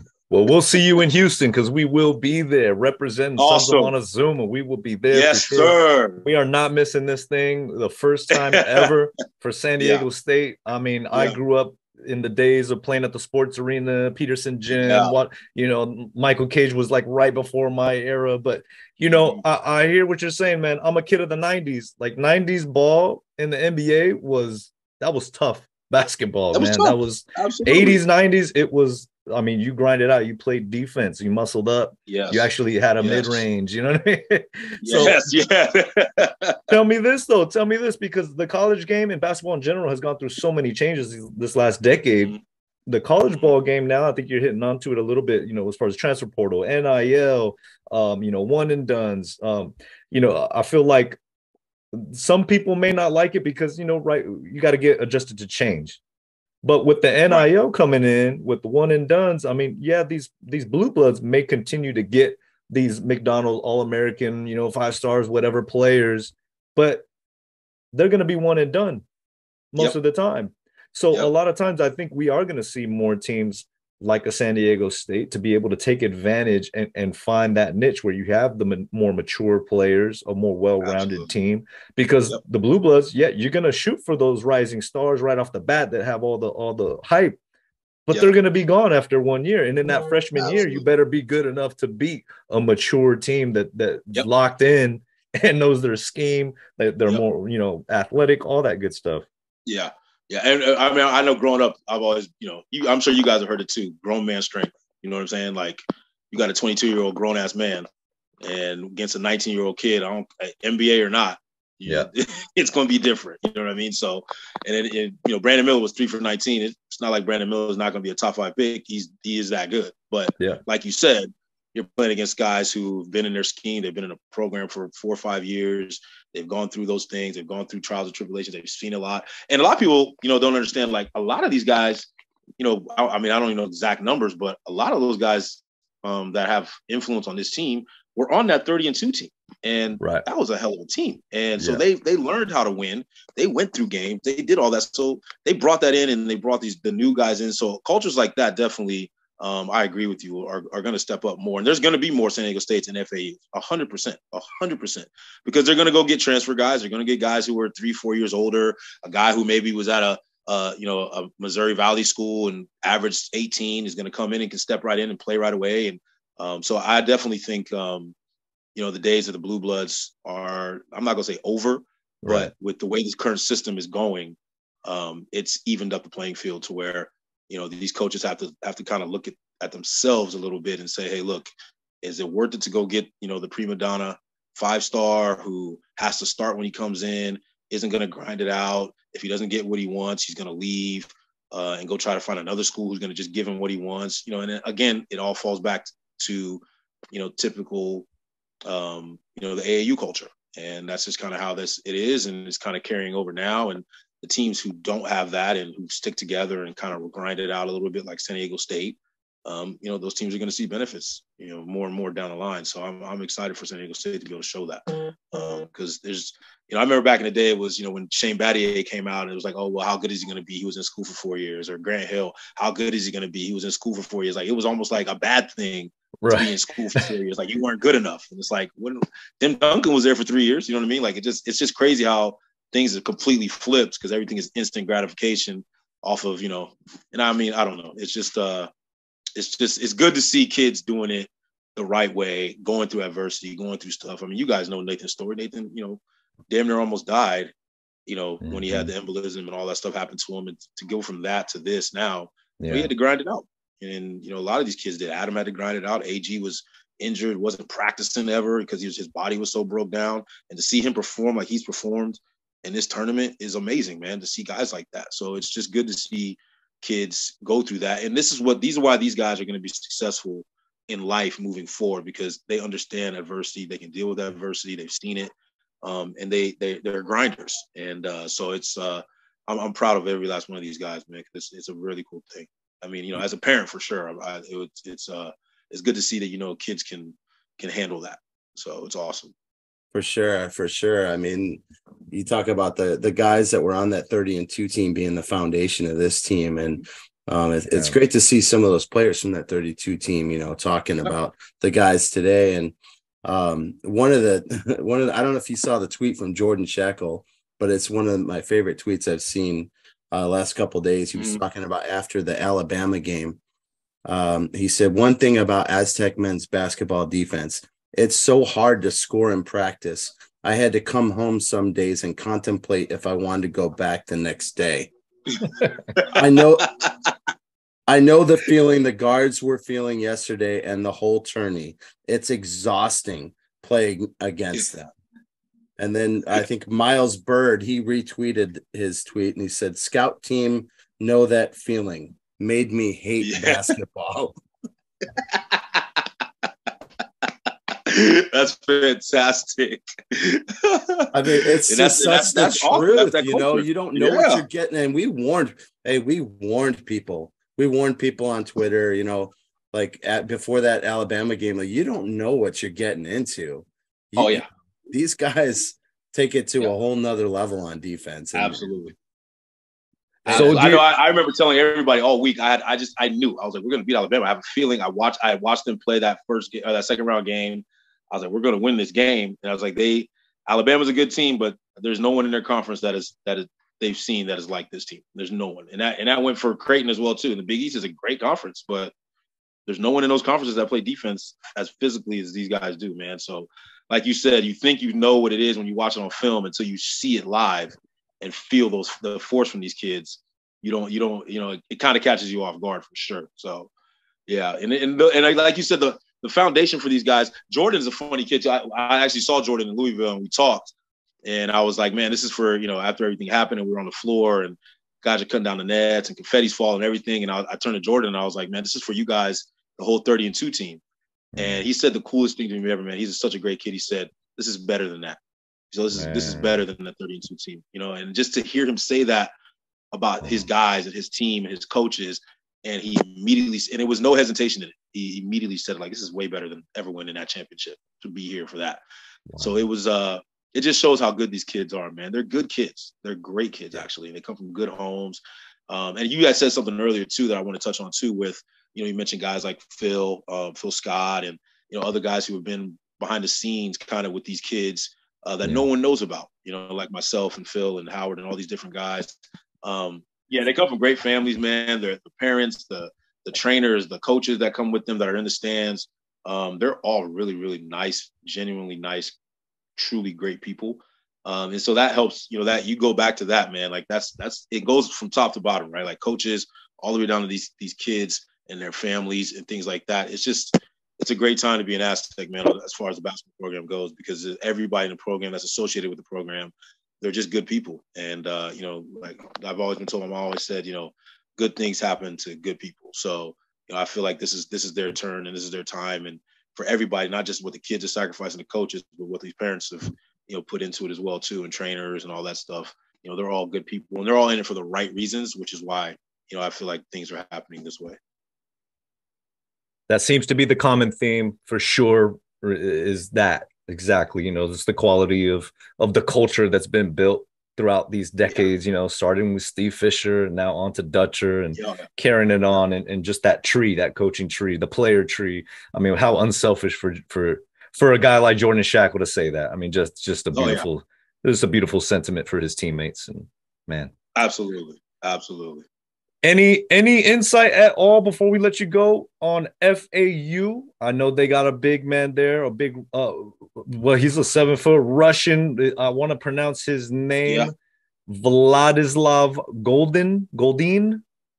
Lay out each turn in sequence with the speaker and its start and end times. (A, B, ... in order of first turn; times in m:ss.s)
0:00.3-0:35.3 A
0:03.4-0:03.9 B
0:05.1-0:06.2 B
0:08.3-0:08.9 B
0:09.8-0:10.0 B
0:14.7-0:15.1 B
0:19.1-0:19.4 B
0:26.5-0:28.0 B
0:32.1-0:32.5 B
0:33.0-0:33.4 B
0:34.8-0:36.7 B
0:36.7-0:42.3 A
0:42.9-0:51.2 A
0:51.9-0:56.0 A
0:56.6-1:07.1 A
1:07.9-1:09.0 A
1:09.7-1:27.4 A
1:20.8-1:21.3 B
1:28.1-1:39.2 A
1:30.4-1:30.8 B
1:39.6-1:47.8 B
1:48.4-2:48.1 B
2:48.7-3:01.5 B
2:52.2-2:52.5 A
3:02.0-3:18.1 B
3:18.6-3:58.7 B
3:46.2-3:47.1 A
3:59.4-4:07.5 B
4:08.1-4:49.3 B
4:08.4-4:08.9 A
4:12.6-4:12.9 A
4:49.9-5:13.4 C
5:11.1-5:11.4 B
5:14.0-5:24.9 C
5:26.0-5:26.2 B
5:26.1-5:26.7 C
5:27.9-5:34.9 C
5:35.8-5:44.4 C
5:43.2-5:43.7 B
5:45.2-5:46.0 B
5:47.7-5:54.4 B
5:51.1-6:08.9 C
6:04.2-6:04.4 B
6:08.3-6:08.9 B
6:10.2-6:10.6 C
6:10.2-6:28.9 B
6:10.3-6:10.8 A
6:29.7-6:43.7 B
6:44.3-6:50.7 B
6:51.2-7:00.8 B
7:01.4-7:01.6 A
7:01.4-7:05.2 B
7:05.7-7:09.3 B
7:05.9-7:06.6 A
7:09.9-7:18.8 B
7:19.3-7:19.6 A
7:19.4-7:49.1 B
7:49.8-8:28.0 B
8:29.9-8:53.9 A
8:41.5-8:41.8 B
8:50.3-8:50.6 B
8:54.2-8:55.6 B
8:56.2-9:07.5 A
9:07.2-9:07.5 B
9:08.1-9:11.0 A